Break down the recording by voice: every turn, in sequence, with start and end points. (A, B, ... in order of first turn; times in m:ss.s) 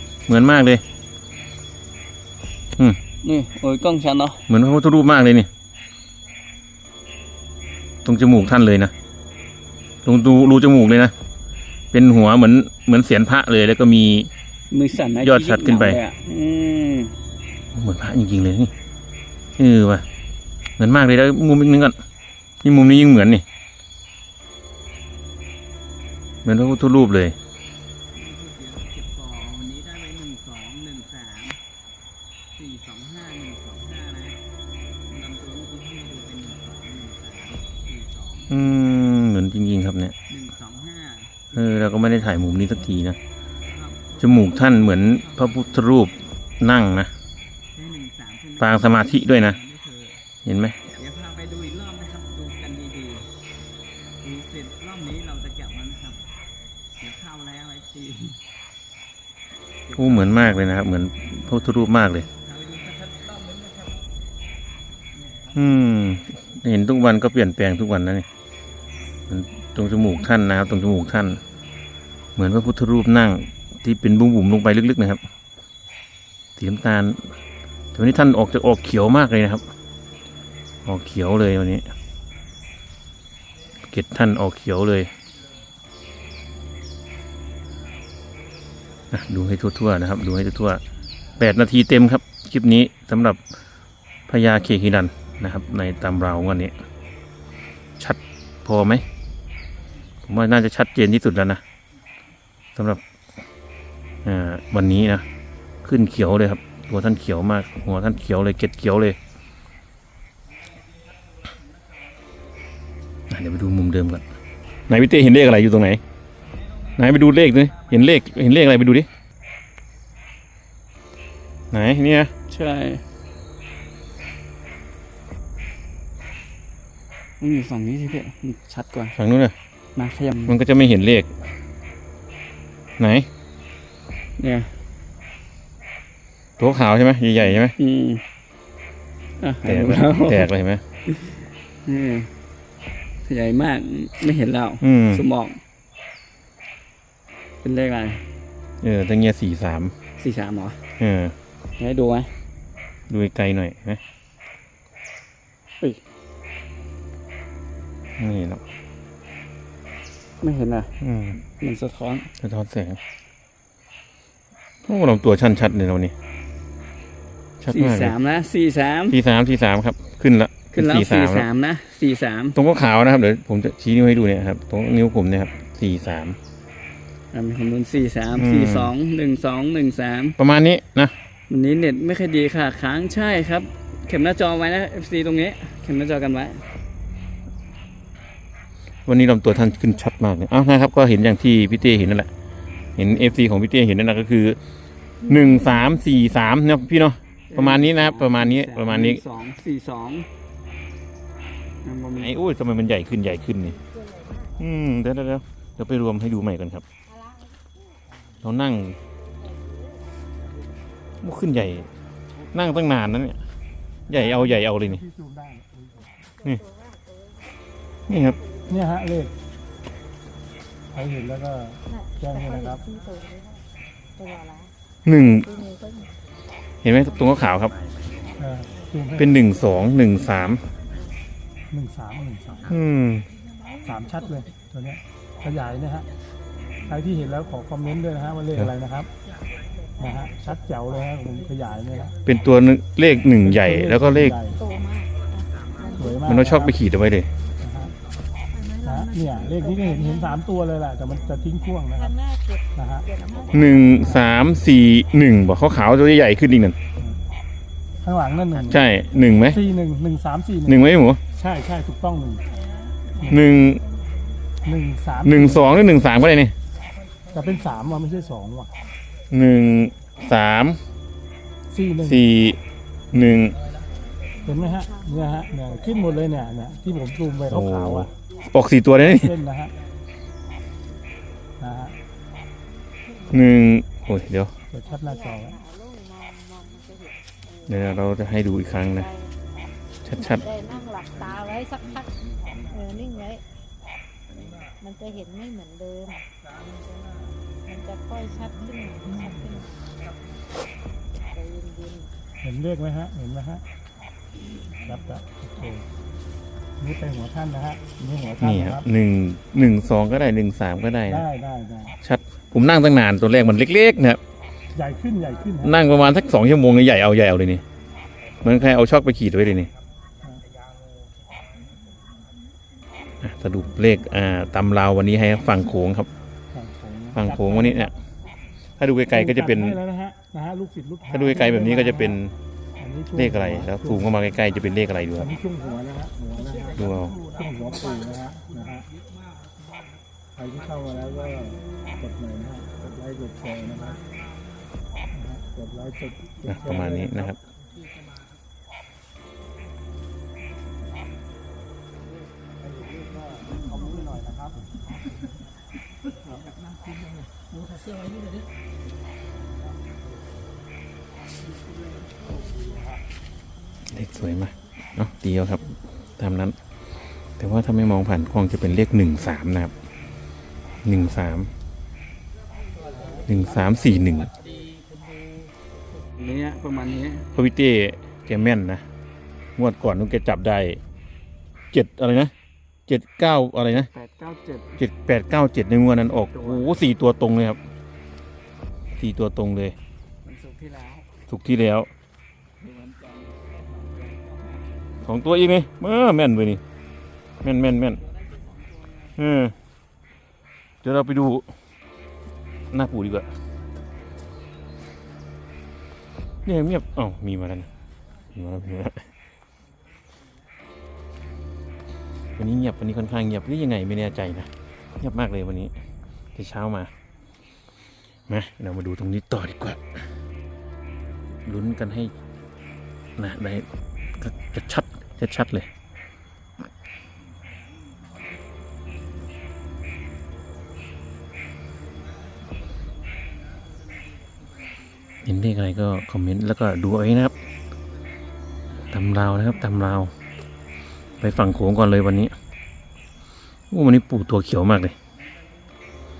0:00.3-0:00.8 A
0:03.2-0:04.4 B
0:04.5-0:05.5 A
0:08.0-0:08.9 A
0:10.0-0:11.1 A
0:11.9-0:14.3 A
0:14.7-0:17.2 B
0:15.2-0:16.0 A
0:17.7-0:18.7 A
0:19.6-0:20.0 A
0:20.8-0:22.0 A
0:22.6-0:23.4 A
0:26.4-0:27.4 A
0:28.1-0:31.6 B
0:32.5-0:34.4 B
0:35.1-0:38.6 B
0:38.5-0:40.1 A
0:40.3-0:41.4 B
0:41.5-0:43.2 A
0:43.7-0:46.2 B
0:44.2-0:47.1 A
0:47.7-0:50.2 B
0:48.6-0:49.6 A
0:50.4-0:50.8 A
0:50.9-0:53.3 B
0:54.2-0:56.3 B
0:57.0-0:58.4 B
0:59.9-1:00.6 B
0:59.9-1:02.3 A
1:02.3-1:04.0 B
1:05.2-1:05.6 B
1:05.5-1:08.3 A
1:09.3-1:11.4 A
1:12.4-1:15.2 A
1:16.6-1:17.3 A
1:17.9-1:19.7 A
1:20.8-1:21.9 A
1:23.8-1:25.1 A
1:29.1-1:30.8 A
1:31.4-1:33.4 A
1:34.3-1:36.7 A
1:38.0-1:39.0 A
1:40.2-1:41.6 A
1:42.8-1:43.0 A
1:44.2-1:45.2 A
1:45.8-1:49.2 A
1:53.3-1:54.2 A
1:54.9-1:56.0 A
1:57.0-1:59.1 A
2:01.7-2:02.3 A
2:02.5-2:03.0 B
2:07.4-2:09.1 B
2:09.1-2:09.6 A
2:10.0-2:10.6 B
2:10.5-2:11.3 A
2:13.0-2:13.3 A
2:14.4-2:14.7 B
2:16.6-2:17.8 A
2:17.8-2:18.2 B
2:19.4-2:20.5 B
2:19.6-2:20.8 A
2:21.1-2:22.3 B
2:23.2-2:25.6 B
2:24.8-2:25.2 A
2:27.6-2:28.2 B
2:28.8-2:29.9 A
2:30.2-2:30.8 B
2:31.0-2:31.3 A
2:31.8-2:32.3 B
2:33.1-2:34.0 A
2:38.2-2:38.6 A
2:40.4-2:42.3 B
2:41.0-2:41.4 A
2:42.4-2:43.0 A
2:44.8-2:46.1 A
2:47.6-2:48.2 A
2:47.7-2:49.2 B
2:49.1-2:51.5 A
2:50.7-2:52.6 B
2:52.5-2:56.4 A
2:57.3-3:00.4 B
2:58.4-2:58.9 A
3:00.4-3:01.1 A
3:01.5-3:06.6 B
3:09.0-3:12.3 A
3:13.0-3:14.6 A
3:15.2-3:19.2 A
3:17.5-3:20.3 B
3:21.8-3:22.3 B
3:22.2-3:23.8 A
3:23.8-3:24.5 C
3:24.6-3:26.8 A
3:27.1-3:27.5 C
3:28.4-3:29.0 A
3:29.4-3:30.0 C
3:31.2-3:31.9 A
3:32.5-3:33.4 A
3:34.1-3:35.0 A
3:34.1-3:36.1 D
3:36.4-3:37.6 C
3:38.1-3:38.4 A
3:38.3-3:38.7 C
3:38.6-3:39.3 D
3:40.9-3:42.8 D
3:41.9-3:43.6 C
3:44.2-3:44.7 C
3:45.0-3:45.6 A
3:45.4-3:46.2 C
3:46.8-3:47.8 A
3:48.4-3:49.4 D
3:49.2-3:50.6 A
3:51.7-3:52.7 D
3:52.6-3:53.3 A
3:53.8-3:56.1 D
3:56.8-3:59.1 D
3:59.9-4:00.2 C
4:00.0-4:02.2 D
4:02.2-4:04.4 A
4:03.4-4:04.6 D
4:04.5-4:06.4 C
4:06.0-4:06.9 D
4:06.2-4:07.3 A
4:07.6-4:07.9 D
4:08.7-4:10.4 C
4:08.8-4:12.1 D
4:11.9-4:14.3 C
4:12.8-4:13.1 D
4:13.5-4:16.8 A
4:18.0-4:18.8 D
4:18.5-4:19.6 A
4:19.4-4:20.8 D
4:20.6-4:21.2 A
4:21.3-4:22.4 D
4:23.2-4:23.8 A
4:24.6-4:25.7 D
4:25.2-4:26.5 A
4:27.3-4:28.7 D
4:29.3-4:30.8 A
4:31.7-4:32.2 D
4:32.0-4:32.6 A
4:33.1-4:33.6 A
4:34.4-4:36.4 C
4:34.4-4:38.1 D
4:37.4-4:39.4 A
4:39.0-4:39.7 D
4:41.6-4:41.9 D
4:43.0-4:43.4 C
4:43.3-4:44.5 A
4:44.7-4:45.6 D
4:44.8-4:47.8 C
4:47.6-4:49.1 A
4:48.8-4:49.4 C
4:50.0-4:50.6 A
4:50.1-4:53.4 C
4:52.5-4:52.7 B
4:54.8-4:56.2 C
4:57.6-4:59.8 C
5:01.3-5:02.1 C
5:02.4-5:03.6 D
5:04.8-5:05.8 D
5:06.8-5:08.8 D
5:08.4-5:11.3 A
5:11.2-5:12.0 D
5:12.0-5:14.2 A
5:14.7-5:15.7 D
5:15.6-5:17.6 A
5:18.4-5:19.7 A
5:23.2-5:26.1 A
5:26.5-5:27.9 D
5:27.1-5:27.9 A
5:28.8-5:29.8 A
5:29.1-5:32.2 D
5:31.1-5:32.4 A
5:32.8-5:34.1 D
5:33.1-5:35.3 A
5:35.2-5:38.8 D
5:36.7-5:37.2 A
5:40.4-5:44.0 D
5:45.2-5:47.1 D
5:46.4-5:47.4 A
5:52.8-5:54.6 D
6:02.3-6:02.8 D
6:03.8-6:06.6 A
6:07.4-6:09.7 A
6:10.8-6:11.5 A
6:13.1-6:14.3 A
6:16.2-6:17.3 B
6:17.3-6:18.8 A
6:19.6-6:20.8 A
6:21.7-6:22.3 A
6:22.9-6:23.9 A
6:23.7-6:24.8 B
6:24.8-6:27.6 A
6:26.1-6:26.8 B
6:29.0-6:29.8 A
6:30.2-6:31.1 B
6:31.3-6:31.9 A
6:32.6-6:34.7 B
6:35.0-6:36.6 A
6:37.4-6:38.0 A
6:38.0-6:39.1 B
6:39.2-6:39.6 A
6:40.8-6:41.5 A
6:42.7-6:43.3 A
6:46.4-6:47.7 A
6:48.3-6:49.1 A
6:52.4-6:55.7 A
6:56.3-6:56.9 A
6:58.3-7:00.0 A
7:01.4-7:02.1 A
7:03.2-7:05.7 A
7:12.1-7:15.1 B
7:15.2-7:17.3 A
7:18.8-7:20.1 A
7:21.2-7:22.3 A
7:23.7-7:25.0 A